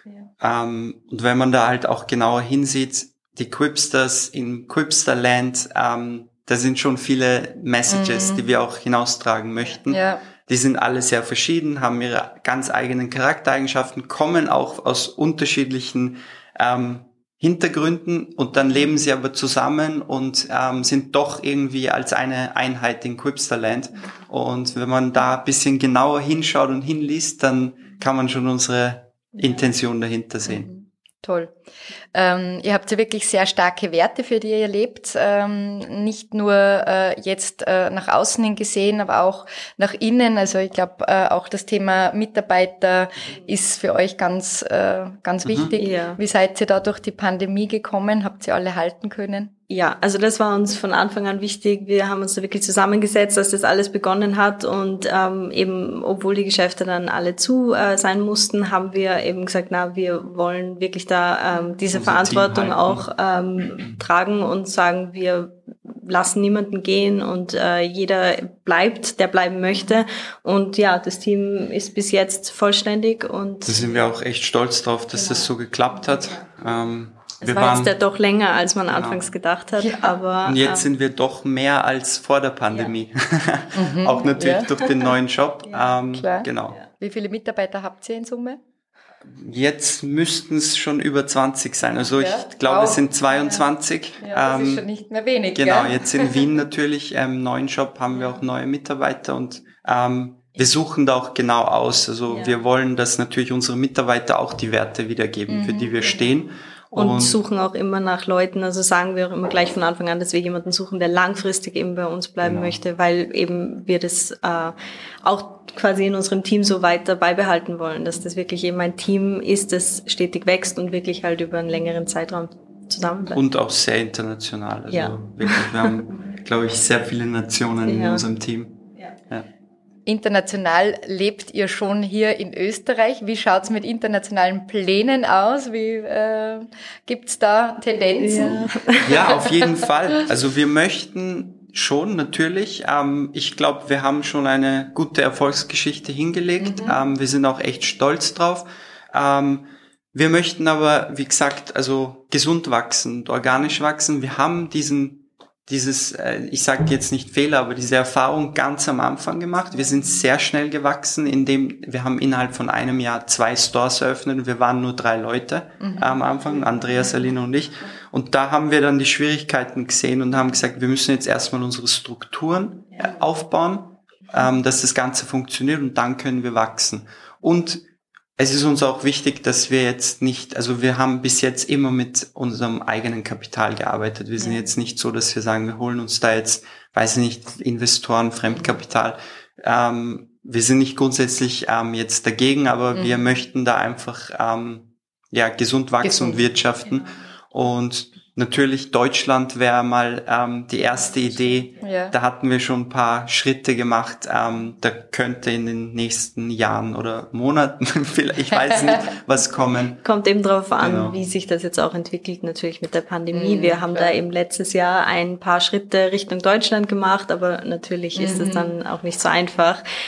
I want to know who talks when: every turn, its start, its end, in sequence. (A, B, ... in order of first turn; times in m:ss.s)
0:00.4-0:30.7 A
0:07.9-0:08.5 B
0:09.9-0:10.2 B
0:30.5-0:31.5 B
0:32.1-0:49.5 B
0:45.4-0:45.7 A
0:45.8-0:46.2 C
0:49.7-1:14.1 C
1:01.5-1:01.8 B
1:01.9-1:03.0 A
1:13.6-1:17.9 A
1:15.1-1:16.6 C
1:17.4-1:20.9 C
1:18.9-1:19.3 A
1:19.8-1:20.2 B
1:20.4-1:26.8 A
1:23.7-1:24.7 B
1:24.8-1:25.1 C
1:25.6-1:26.2 C
1:26.1-1:28.6 B
1:29.2-1:34.9 A
1:32.2-1:33.0 B
1:33.3-1:33.6 C
1:34.2-1:36.4 B
1:35.5-1:47.4 A
1:38.1-1:38.4 C
1:42.3-1:42.6 C
1:45.5-1:45.9 B
1:46.0-1:46.3 C
1:46.9-2:03.4 C
1:52.4-1:52.8 A
2:03.3-2:09.5 A
2:04.9-2:06.0 C
2:07.8-2:08.2 C
2:10.0-2:18.7 B
2:18.2-2:19.3 C
2:18.5-2:57.8 A
2:19.3-2:19.6 B
2:26.6-2:27.0 B
2:45.8-2:46.2 B
2:58.4-3:30.0 A
3:08.5-3:08.8 B
3:12.9-3:13.2 B
3:16.0-3:16.4 B
3:16.8-3:17.1 C
3:20.9-3:21.9 C
3:21.8-3:22.1 B
3:28.5-3:29.0 B
3:30.0-3:39.8 C
3:30.8-3:31.2 A
3:33.3-3:34.1 B
3:38.1-3:38.7 B